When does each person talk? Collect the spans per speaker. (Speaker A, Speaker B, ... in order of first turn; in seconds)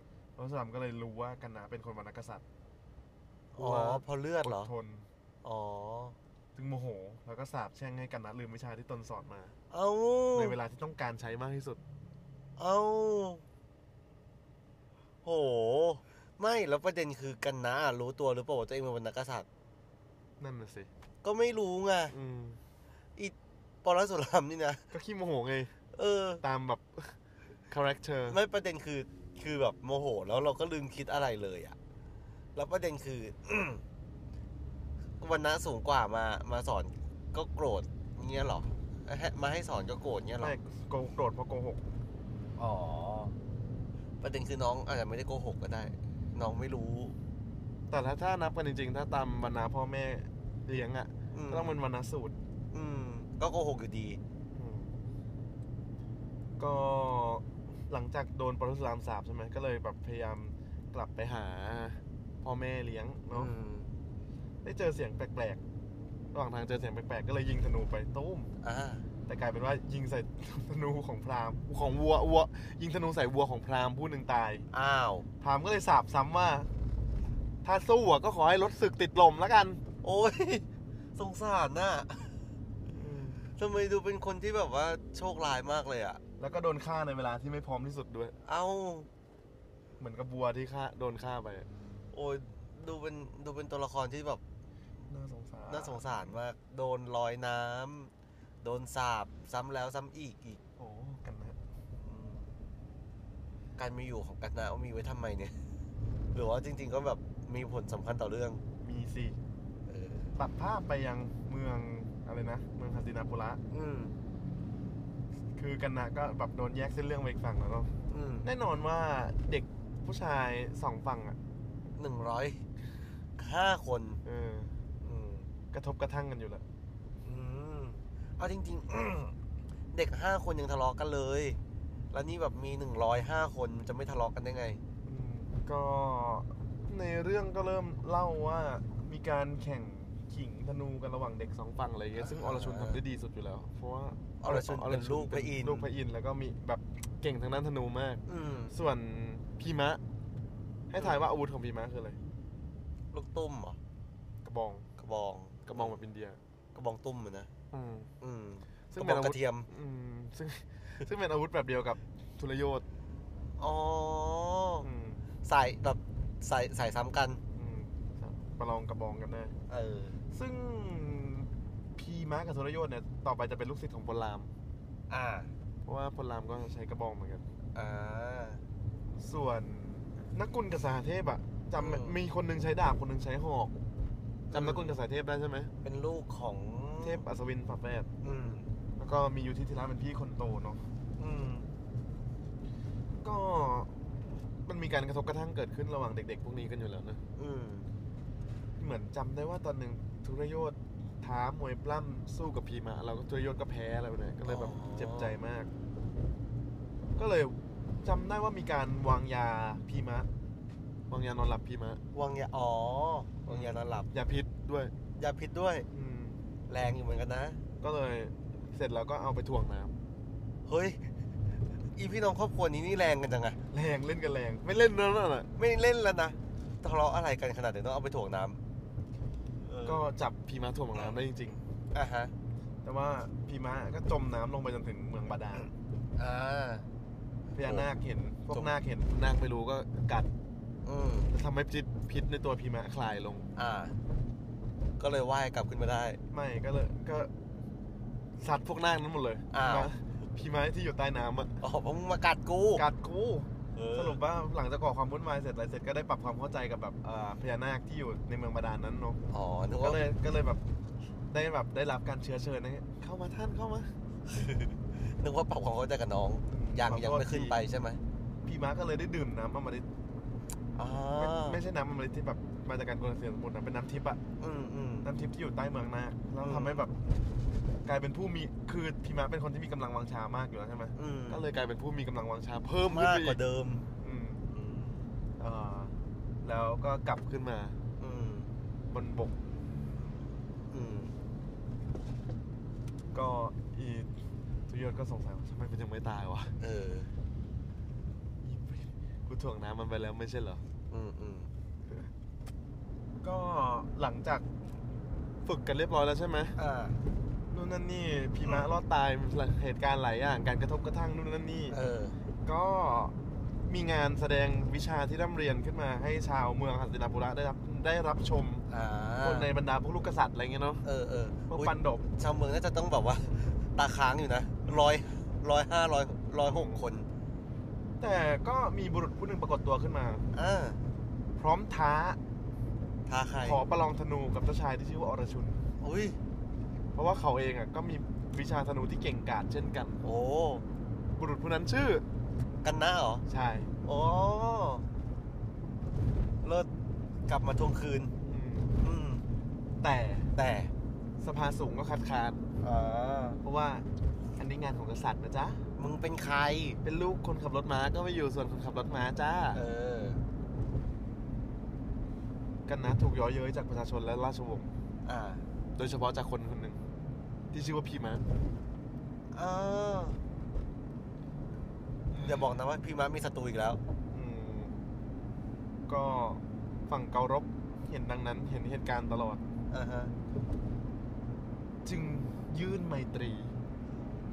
Speaker A: 0.4-2.4, 3.6-5.1, 6.6-9.6, 10.3-11.8, 20.4-20.9, 22.1-22.6, 24.9-25.7, 26.4-27.2, 27.7-28.4, 40.4-41.8, 47.9-52.4, 54.5-55.0, 56.6-63.5, 64.6-65.6, 66.3-68.5, 69.3-74.7, 75.4-76.7, 77.6-79.8, 82.9-83.4, 86.4-88.3, 90.0-91.7, 95.1-96.3, 100.8-101.6, 108.8-109.4, 110.4-113.6, 115.6-117.9, 118.4-121.4, 124.2-124.7, 125.7-126.7, 135.1-150.0, 150.9-152.2, 154.4-154.9, 155.7-156.4, 157.7-158.1, 158.9-162.8, 164.8-165.2, 167.5-169.6, 170.3-174.5, 175.9-177.4, 179.2-183.8, 184.5-185.7, 187.0-188.1, 189.0-190.9, 193.2-193.9, 194.7-197.2, 198.8-205.7, 207.2-210.3, 211.1-212.0, 213.5-214.9, 215.9-216.4, 217.8-219.9, 223.7-225.5, 229.8-231.6, 232.8-235.7, 237.5-240.3, 241.3-243.5, 246.3-247.3, 248.4-251.6, 252.8-259.2, 259.8-260.6, 261.3-263.9, 266.5-267.6, 268.4-269.9, 271.1-274.2, 275.0-277.0, 277.9-283.4, 284.0-284.4, 285.4-287.8, 288.9-289.3, 293.1-294.1, 294.7-296.5, 298.4-300.6, 303.2-304.4, 305.4-306.6, 307.5-311.8, 312.4-313.1, 313.7-318.6, 319.2-320.8, 321.5-322.1, 326.4-326.8, 328.0-330.2, 331.4-332.2, 333.4-335.6, 336.9-340.0, 341.2-342.1, 343.3-343.7, 348.2-348.8, 349.8-350.3, 351.2-352.4, 353.4-353.9, 354.4-355.6, 356.8-359.6, 362.7-364.7, 365.8-366.8, 367.5-368.3, 372.1-372.4, 374.1-374.8, 375.9-379.4, 381.8-383.6
Speaker B: 3.6-4.7, 5.4-6.2, 9.7-10.6, 12.6-13.4, 15.2-19.5, 21.2-22.1, 23.2-24.8, 25.9-26.4, 28.3-31.8, 32.5-33.8, 35.2-40.6, 42.6-43.4, 44.2-47.2, 51.3-51.8, 52.7-54.2, 63.3-63.9, 68.6-69.1, 74.7-75.3, 80.0-82.4, 83.5-86.2, 88.5-89.1, 92.1-94.4, 95.7-98.1, 98.6-100.6, 101.9-102.5, 103.8-105.6, 106.3-108.6, 109.9-110.4, 113.7-114.2, 118.1-118.5, 122.0-122.6, 123.4-124.2, 125.0-125.5, 127.2-129.3, 129.9-131.6, 132.1-134.8, 142.2-143.0, 144.4-145.9, 148.3-148.8, 151.0-151.2, 153.1-153.8, 155.0-156.0, 156.8-157.5, 158.2-159.7, 163.6-164.9, 165.4-167.4, 169.7-170.2, 175.1-175.5, 177.8-178.6, 181.8-182.2, 184.5-185.0, 185.8-187.2, 188.2-188.7, 191.2-191.7, 197.4-197.9, 204.4-205.4, 212.1-214.1, 215.2-215.9, 216.7-217.6, 220.7-221.1, 221.9-223.6, 225.6-228.6, 229.6-230.1, 231.9-232.3, 236.2-236.9, 237.6-237.9, 240.8-241.3, 243.6-244.0, 245.0-246.2, 249.5-249.9, 251.6-252.8, 253.8-254.2, 259.3-260.1, 264.3-268.0, 270.8-271.6, 274.4-275.1, 276.4-276.9, 280.9-281.5, 282.9-283.9, 284.5-285.0, 288.0-288.5, 290.7-291.1, 296.6-297.1, 300.9-301.5, 306.6-307.0, 311.7-312.2, 318.7-319.5, 320.8-327.1, 330.3-330.8, 333.1-333.6, 335.8-336.2, 340.0-340.6, 342.6-343.2, 343.8-344.9, 346.4-346.7, 347.3-348.1, 348.8-349.2, 350.4-350.7, 352.6-353.4, 355.8-356.8, 359.5-360.2, 365.1-365.4, 369.3-370.2, 372.1-373.8, 379.7-380.1